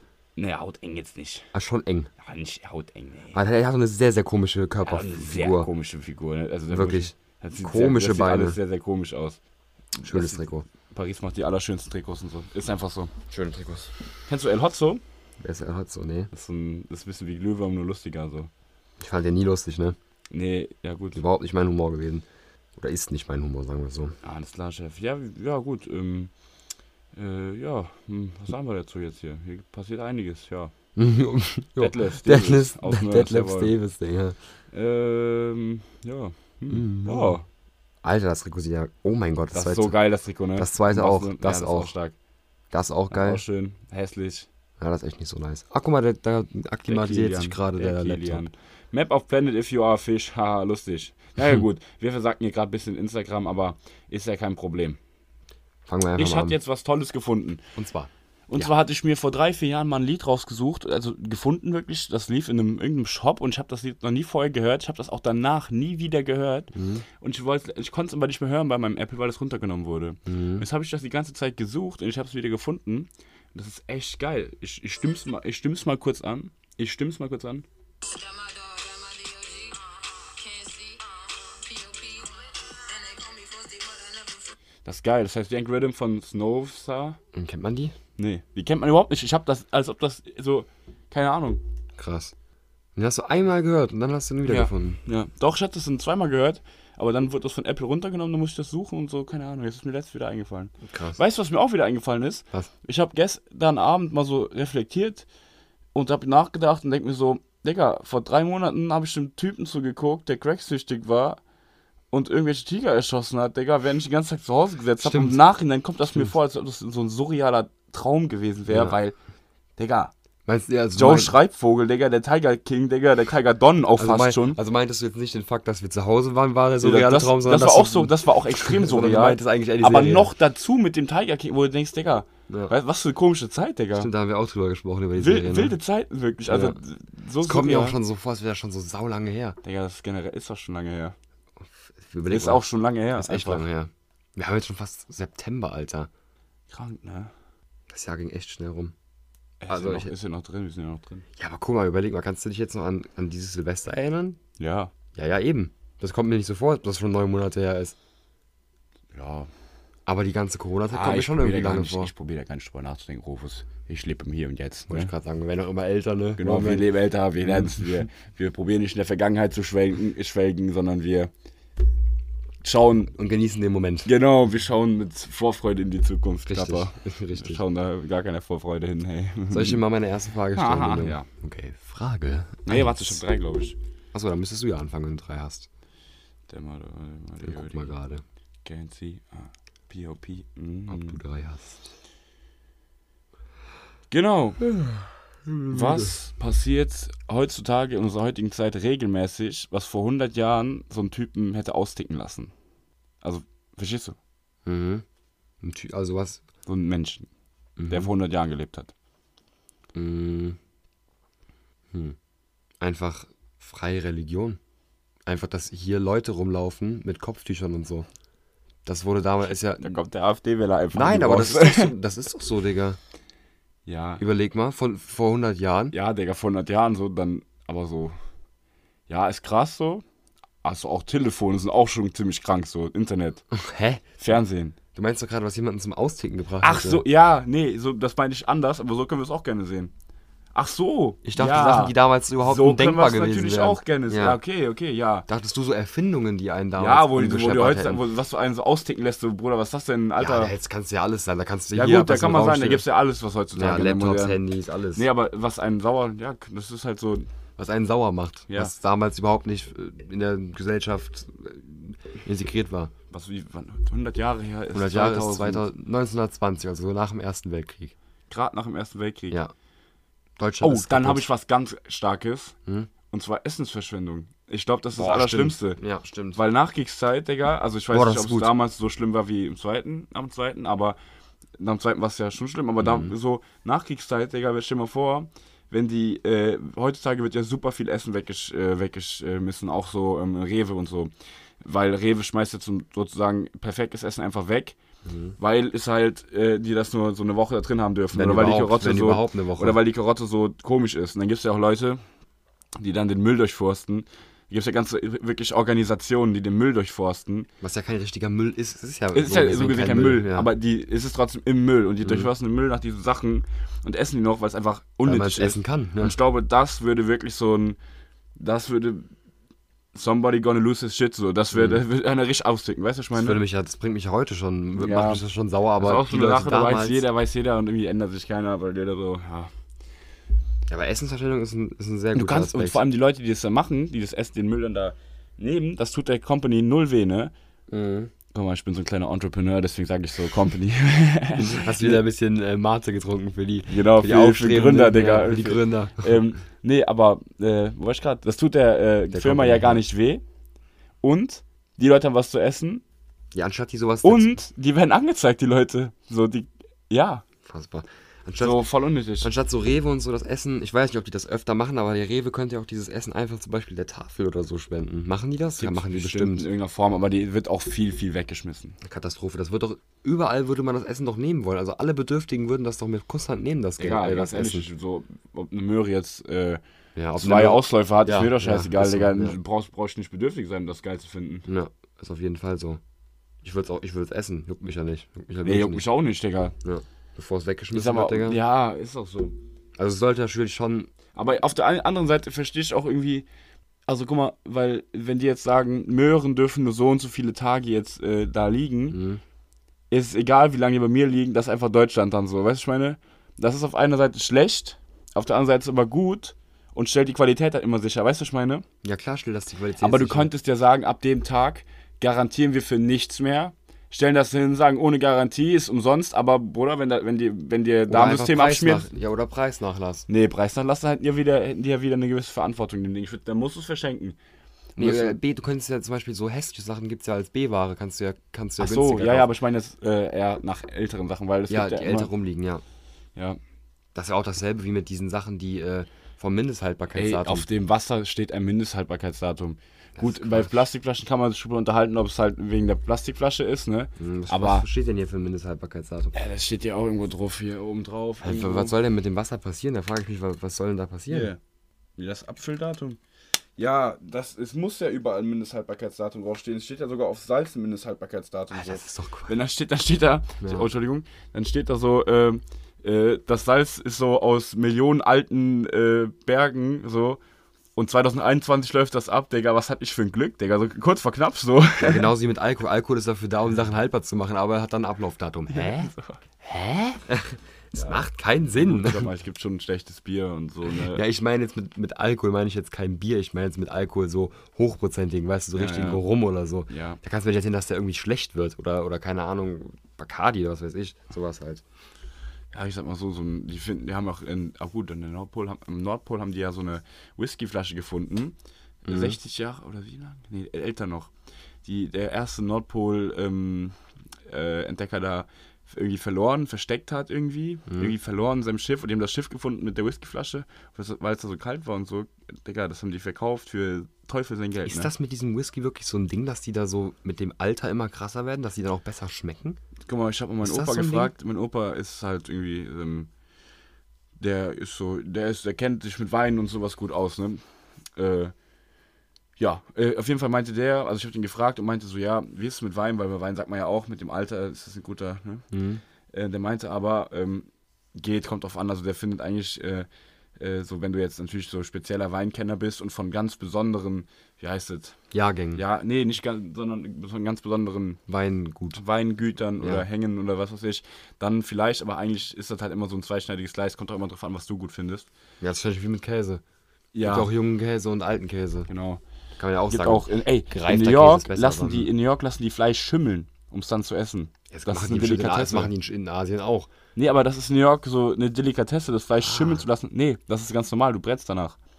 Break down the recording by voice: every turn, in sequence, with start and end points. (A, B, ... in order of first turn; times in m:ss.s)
0:00.4-0:01.5 A
0:01.5-0:02.1 B
0:02.2-0:03.4 A
0:03.3-0:05.7 B
0:04.8-0:09.4 A
0:06.7-0:08.6 B
0:10.0-0:13.1 A
0:10.0-0:10.6 B
0:13.3-0:13.9 B
0:14.3-0:15.0 A
0:15.4-0:16.3 B
0:16.3-0:18.5 A
0:19.0-0:20.0 B
0:20.3-0:21.2 A
0:21.1-0:24.1 B
0:24.2-0:26.3 A
0:27.1-0:30.7 A
0:31.0-0:34.4 B
0:31.8-0:33.7 A
0:34.7-0:37.4 A
0:36.7-0:37.4 B
0:38.0-0:40.0 B
0:39.5-0:42.1 A
0:40.6-0:41.9 B
0:42.7-0:43.4 B
0:43.1-0:44.5 A
0:44.8-0:48.4 B
0:46.9-0:55.0 A
0:55.9-0:56.6 B
0:56.2-0:57.6 A
0:57.8-0:58.7 B
0:58.5-1:17.6 A
1:06.7-1:07.0 B
1:10.3-1:10.6 B
1:18.0-1:24.6 C
1:24.8-1:27.2 A
1:27.3-1:27.9 B
1:28.2-1:31.6 A
1:32.0-1:32.3 B
1:33.0-1:35.0 B
1:34.4-1:45.2 A
1:40.8-1:41.2 B
1:45.9-1:51.4 A
1:52.1-1:59.2 A
1:55.0-1:55.4 B
1:58.7-1:58.9 B
1:59.8-2:00.1 A
2:00.4-2:01.4 B
2:00.9-2:04.6 A
2:04.0-2:10.3 B
2:06.8-2:14.1 A
2:12.5-2:12.7 B
2:14.0-2:15.7 B
2:15.2-2:18.0 A
2:16.5-2:16.8 B
2:17.4-2:19.6 B
2:19.6-2:21.1 A
2:21.6-2:26.1 B
2:22.3-2:23.6 A
2:26.7-2:27.3 A
2:27.9-2:28.9 B
2:29.6-2:31.2 A
2:29.7-2:30.1 B
2:31.4-2:34.4 B
2:34.6-2:34.9 A
2:35.1-2:38.0 B
2:39.1-2:39.5 A
2:40.1-2:42.1 B
2:40.9-2:45.1 A
2:44.9-2:46.8 B
2:46.4-2:51.3 A
2:47.4-2:47.9 B
2:52.6-2:53.1 A
2:53.1-2:54.1 B
2:54.0-2:59.8 A
2:56.5-2:57.6 B
2:59.5-3:03.2 B
3:00.5-3:01.3 A
3:02.6-3:03.8 A
3:04.1-3:05.7 B
3:06.5-3:07.9 A
3:07.4-3:08.2 B
3:08.6-3:11.2 A
3:10.9-3:11.9 B
3:14.1-3:14.7 A
3:15.4-3:16.1 B
3:15.7-3:22.5 A
3:23.2-3:24.2 A
3:24.6-3:25.0 B
3:25.6-3:26.4 B
3:26.6-3:27.3 A
3:27.8-3:28.1 B
3:27.9-3:28.9 A
3:29.9-3:30.6 B
3:32.8-3:34.6 B
3:35.2-3:38.1 B
3:38.8-3:39.9 B
3:39.8-3:41.9 A
3:40.9-3:43.0 B
3:43.8-3:44.2 A
3:44.2-3:45.9 B
3:45.9-3:48.2 A
3:49.1-3:50.0 A
3:50.6-3:53.4 A
3:53.5-3:54.0 B
3:54.2-3:54.8 A
3:54.9-3:57.0 B
3:56.6-3:59.9 A
4:00.5-4:05.3 A
4:01.2-4:04.4 B
4:05.3-4:08.0 B
4:06.8-4:10.5 A
4:10.2-4:12.8 B
4:11.7-4:14.4 A
4:13.5-4:15.0 B
4:14.9-4:17.3 A
4:17.6-4:22.9 B
4:23.1-4:25.6 A
4:24.7-4:27.9 B
4:28.3-4:29.4 A
4:30.4-4:31.3 B
4:30.6-4:32.6 A
4:33.1-4:35.8 A
4:34.9-4:36.4 B
4:36.3-4:41.0 A
4:37.9-4:38.5 B
4:41.6-4:54.8 A
4:42.8-4:43.1 B
4:55.0-4:55.4 B
4:55.4-5:02.0 A
4:58.1-4:59.8 B
5:02.8-5:07.5 A
5:07.6-5:10.5 B
5:09.1-5:17.8 A
5:12.0-5:12.3 B
5:15.0-5:16.1 B
5:18.4-5:19.1 A
5:19.9-5:23.4 A
5:21.5-5:21.8 B
5:23.1-5:27.0 B
5:24.8-5:25.2 A
5:25.8-5:29.5 A
5:30.7-5:32.8 B
5:32.1-5:37.3 A
5:37.7-5:38.1 B
5:38.3-5:42.0 A
5:41.4-5:46.2 B
5:43.7-5:50.2 A
5:49.1-5:49.8 B
5:51.0-5:52.8 A
5:53.3-5:54.3 B
5:54.0-5:57.2 A
5:57.4-5:58.7 B
5:58.4-5:59.3 A
5:59.2-6:06.5 B
6:05.6-6:08.8 A
6:08.8-6:14.6 B
6:13.8-6:16.6 A
6:17.0-6:19.4 B
6:17.2-6:21.5 A
6:21.5-6:22.8 B
6:23.4-6:25.8 B
6:25.4-6:26.5 A
6:26.6-6:28.4 B
6:27.7-6:29.4 A
6:29.8-6:30.9 B
6:31.1-6:33.2 A
6:33.9-6:39.0 A
6:38.9-6:39.2 B
6:39.9-6:48.6 A
6:48.8-6:50.3 B
6:49.8-6:58.9 A
6:57.9-7:00.1 B
7:00.1-7:04.2 A
7:04.8-7:05.2 A
7:04.8-7:09.3 B
7:08.6-7:12.1 A
7:11.5-7:12.6 B
7:13.9-7:17.5 B
7:16.9-7:24.6 A
7:20.0-7:20.5 B
7:24.0-7:26.2 B
7:26.1-7:28.7 A
7:28.2-7:31.3 B
7:31.1-7:31.4 A
7:32.0-7:33.0 A
7:33.6-7:47.2 A
7:38.5-7:39.3 B
7:40.4-7:40.7 B
7:47.8-7:52.1 A
7:51.8-7:59.1 B
7:55.5-7:56.2 A
7:58.6-8:01.0 A
8:00.7-8:11.6 B
8:05.5-8:06.0 A
8:06.7-8:07.0 A
8:12.5-8:21.1 A
8:18.9-8:19.2 B
8:21.6-8:23.8 A
8:24.3-8:34.9 A
8:27.7-8:27.9 B
8:34.6-8:39.6 B
8:39.9-8:43.1 A
8:40.4-8:41.1 B
8:44.2-8:47.4 A
8:48.0-8:48.3 A
8:49.4-8:55.4 A
8:55.5-8:55.8 B
8:56.1-8:59.9 A
9:00.4-9:05.0 A
9:05.1-9:05.6 B
9:05.5-9:08.0 A
9:08.1-9:08.8 B
9:08.7-9:15.1 A
9:09.6-9:09.9 B
9:15.4-9:16.4 B
9:16.9-9:17.3 A
9:17.0-9:18.7 B
9:18.7-9:19.0 A
9:19.4-9:21.9 B
9:19.7-9:25.7 A
9:24.5-9:26.7 B
9:27.0-9:31.6 A
9:29.2-9:29.7 B